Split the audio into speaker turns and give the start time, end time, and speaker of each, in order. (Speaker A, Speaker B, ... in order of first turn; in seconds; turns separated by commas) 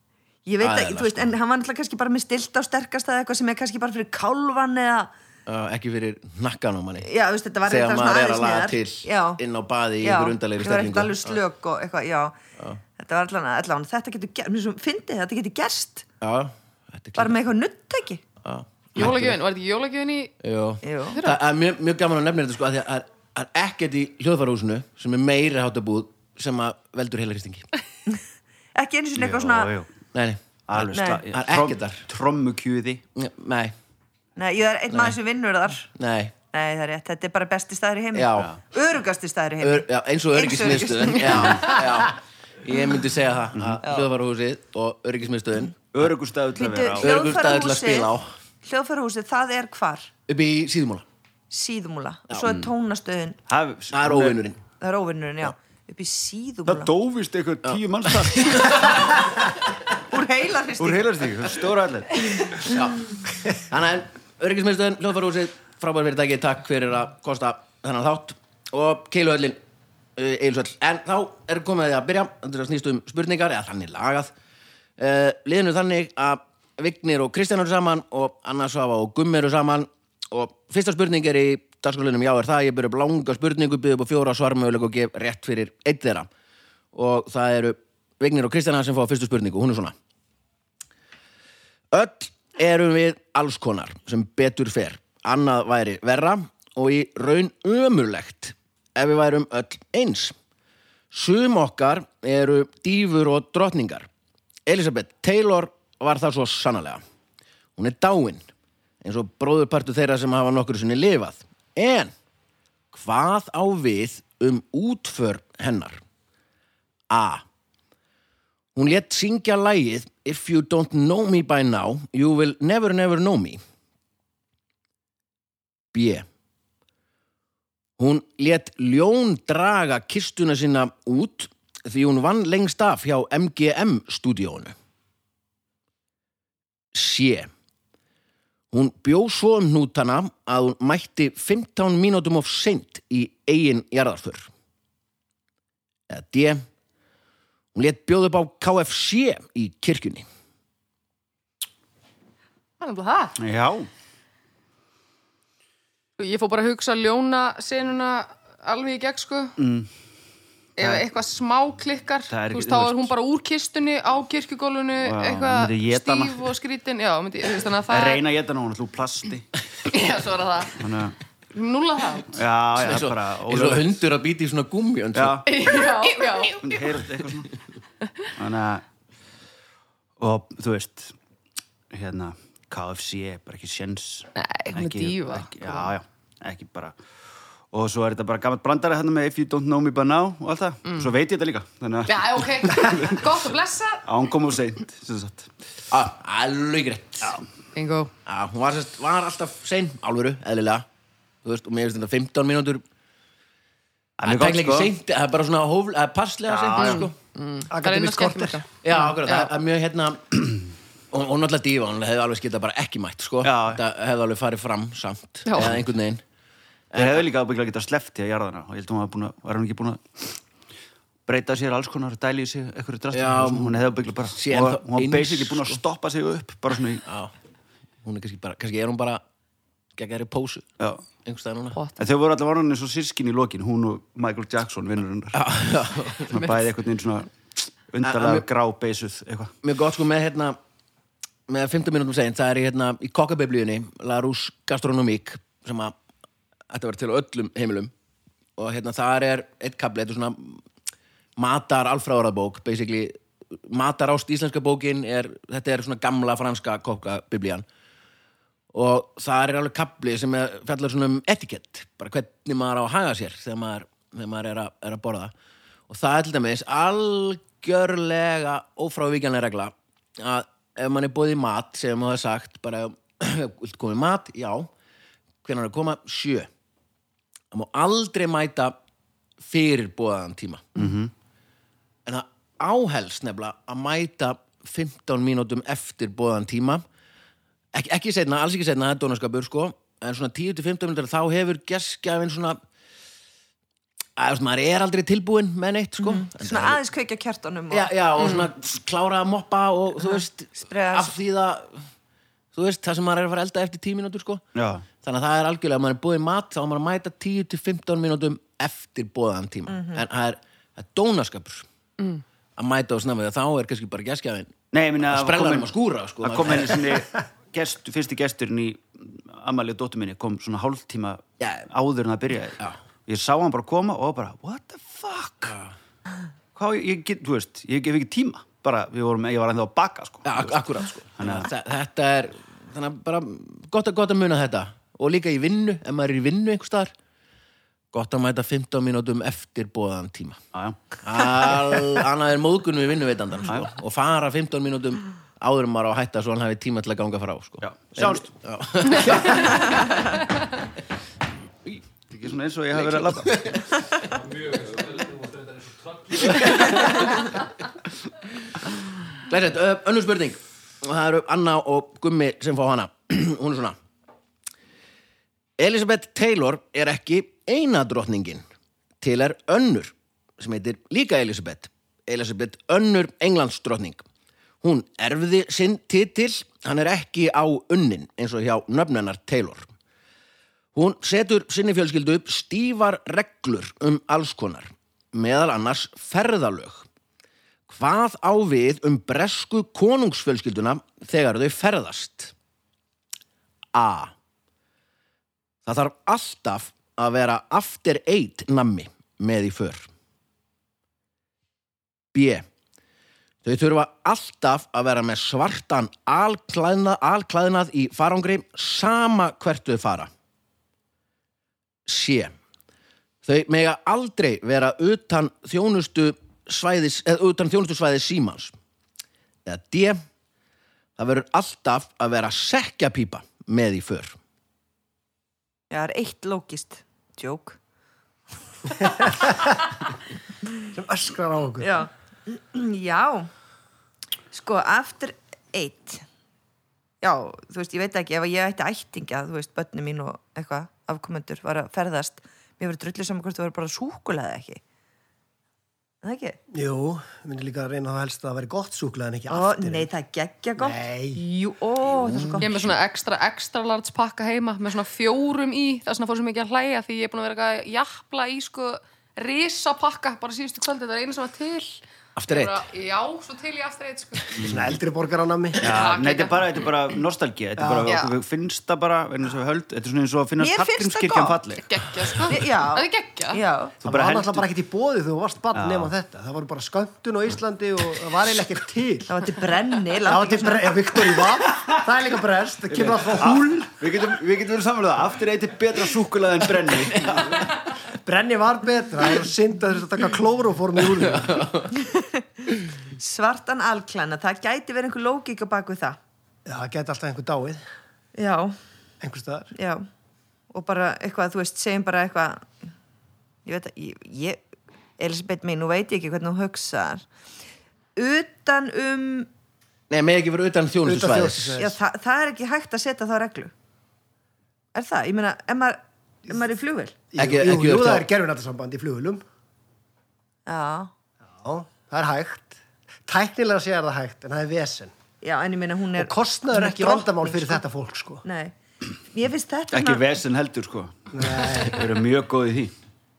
Speaker A: 0.5-5.1, Speaker B: 0.6-1.3, Speaker B: 5.5-7.1, Speaker A: 7.0-9.4, Speaker B: 7.7-11.4, Speaker A: 10.0-12.4, Speaker A: 13.0-16.1, Speaker B: 16.2-17.4, Speaker A: 17.2-18.2, Speaker B: 18.4-19.4, Speaker C: 18.9-20.3, Speaker B: 20.4-27.7, Speaker A: 20.8-21.2, Speaker C: 21.1-21.4, Speaker A: 28.8-29.7, Speaker D: 29.2-29.9, Speaker B: 30.1-32.1, Speaker D: 30.7-33.0, Speaker A: 30.9-31.2, Speaker B: 33.1-33.8, Speaker A: 34.4-35.9, Speaker B: 34.9-35.2, Speaker B: 36.0-36.3, Speaker A: 36.5-41.9, Speaker B: 38.1-38.5, Speaker B: 39.6-46.1, Speaker D: 45.9-47.1, Speaker A: 46.6-48.1, Speaker B: 47.0-48.3, Speaker A: 48.6-50.1, Speaker B: 50.3-51.0, Speaker A: 51.5-53.4, Speaker D: 52.4-52.7, Speaker D: 53.5-54.4, Speaker B: 53.9-54.6, Speaker A: 54.8-56.9, Speaker D: 56.7-59.1, Speaker B: 57.6-59.0, Speaker A: 60.1-61.2, Speaker D: 60.8-62.6, Speaker B: 62.6-69.6, Speaker B: 70.2-74.3, Speaker B: 75.0-86.3, Speaker B: 86.9-90.0, Speaker B: 91.9-100.3, Speaker B: 101.1-104.1, Speaker B: 104.7-107.0, Speaker B: 107.8-108.5, Speaker B: 109.0-112.1, Speaker B: 112.9-116.0, Speaker B: 117.1-117.4, Speaker B: 118.8-123.6, Speaker B: 125.9-126.3, Speaker B: 128.0-134.7, Speaker B: 136.9-137.5, Speaker B: 138.7-144.5, Speaker B: 146.1-146.7, Speaker B: 147.7-150.3, Speaker C: 152.8-153.4, Speaker D: 153.4-153.9, Speaker C: 156.2-159.5, Speaker D: 159.6-159.9, Speaker D: 160.8-161.1, Speaker C: 160.8-168.2, Speaker D: 162.3-163.1, Speaker D: 165.0-166.5, Speaker D: 167.9-169.5, Speaker C: 169.9-170.8, Speaker D: 170.8-171.2, Speaker C: 171.5-172.4, Speaker D: 172.3-173.9, Speaker B: 172.8-175.4, Speaker D: 175.2-175.5, Speaker C: 175.5-176.8, Speaker D: 176.6-177.5, Speaker D: 178.4-178.8, Speaker D: 180.2-181.1, Speaker D: 181.9-187.0, Speaker C: 184.4-185.9, Speaker D: 187.7-193.4, Speaker C: 192.1-194.1, Speaker D: 194.1-195.5, Speaker B: 195.9-197.3, Speaker C: 197.8-198.1, Speaker B: 198.3-200.9, Speaker B: 201.4-202.8, Speaker D: 204.2-204.9, Speaker B: 204.2-207.2, Speaker D: 206.5-207.1, Speaker C: 206.8-209.5, Speaker E: 207.7-208.6, Speaker B: 208.8-210.4, Speaker B: 211.1-216.2, Speaker D: 213.4-213.8, Speaker C: 215.5-215.8, Speaker B: 216.9-217.2, Speaker D: 217.0-220.4, Speaker D: 221.3-227.1, Speaker B: 223.1-225.8, Speaker B: 227.1-227.3, Speaker B: 228.0-229.2, Speaker B: 230.0-230.7, Speaker B: 231.2-231.8, Speaker C: 231.8-232.0, Speaker D: 232.0-235.5, Speaker B: 235.3-236.3, Speaker D: 236.3-237.3, Speaker C: 236.3-236.6, Speaker D: 237.9-239.5, Speaker B: 238.0-238.4, Speaker B: 239.6-240.6, Speaker B: 241.5-245.9, Speaker B: 246.7-247.9, Speaker B: 248.6-250.6, Speaker B: 251.4-257.7, Speaker B: 258.7-265.3, Speaker B: 265.9-274.7, Speaker B: 275.4-276.5, Speaker B: 277.5-278.8, Speaker B: 279.4-280.7, Speaker D: 280.8-281.1, Speaker B: 282.1-286.8, Speaker B: 287.7-292.6, Speaker B: 294.2-296.8, Speaker A: 296.0-297.9, Speaker B: 297.7-301.8, Speaker C: 298.2-298.5, Speaker A: 300.0-301.1, Speaker B: 302.5-304.4, Speaker D: 304.6-304.9, Speaker B: 305.0-311.7, Speaker A: 309.7-310.0, Speaker B: 312.6-314.5, Speaker D: 314.7-315.7, Speaker B: 315.1-316.9, Speaker D: 316.2-325.6, Speaker B: 321.4-321.7, Speaker B: 325.5-325.7, Speaker D: 326.6-330.6, Speaker B: 330.2-336.9, Speaker D: 331.2-331.5, Speaker B: 337.9-340.4, Speaker D: 340.5-340.8, Speaker B: 341.0-350.2, Speaker D: 347.6-348.3, Speaker D: 352.1-353.6, Speaker B: 352.8-353.7, Speaker B: 356.1-357.2, Speaker B: 359.2-363.8, Speaker B: 365.6-368.4, Speaker B: 369.0-374.0, Speaker B: 374.6-379.7, Speaker B: 380.7-386.9, Speaker B: 387.7-392.3, Speaker B: 393.7-394.1, Speaker B: 395.6-399.9, Speaker B: 402.1-402.5, Speaker B: 403.4-410.1, Speaker B: 411.9-412.3, Speaker B: 413.2-418.5, Speaker B: 419.5-420.0, Speaker B: 421.0-424.2, Speaker A: 425.7-427.6, Speaker E: 429.0-429.4, Speaker E: 430.7-431.8, Speaker A: 431.6-433.3, Speaker A: 434.3-436.1, Speaker A: 437.0-444.6, Speaker A: 446.0-446.4, Speaker E: 446.5-449.9, Speaker A: 449.3-452.5, Speaker E: 450.6-451.2, Speaker B: 452.4-452.7, Speaker C: 452.4-464.4, Speaker B: 462.2-462.6, Speaker D: 464.4-464.7, Speaker E: 464.4-465.9, Speaker C: 465.6-466.6, Speaker D: 465.6-471.8, Speaker E: 467.6-467.9, Speaker C: 467.9-468.1, Speaker A: 470.4-471.4, Speaker C: 471.6-473.4, Speaker A: 472.3-473.8, Speaker E: 473.8-479.1, Speaker D: 473.9-474.5, Speaker D: 475.6-475.9, Speaker A: 479.1-480.7, Speaker E: 480.1-483.7, Speaker D: 482.9-487.5, Speaker E: 488.1-491.5, Speaker B: 491.1-491.7, Speaker A: 491.8-492.4, Speaker A: 492.9-496.0, Speaker E: 496.5-497.6, Speaker A: 498.1-498.6, Speaker E: 499.0-499.5, Speaker A: 499.6-499.9, Speaker A: 500.5-502.7, Speaker A: 503.4-504.4, Speaker A: 505.0-507.0, Speaker A: 508.0-509.3, Speaker B: 509.9-511.6, Speaker E: 510.8-511.8, Speaker A: 511.6-513.5, Speaker A: 514.7-517.0, Speaker E: 517.1-519.2, Speaker B: 517.2-518.1, Speaker A: 520.5-520.9, Speaker E: 521.4-524.9, Speaker A: 525.2-527.6, Speaker E: 526.0-528.2, Speaker A: 528.2-528.5, Speaker A: 529.1-530.0, Speaker D: 529.7-532.7, Speaker E: 531.1-531.9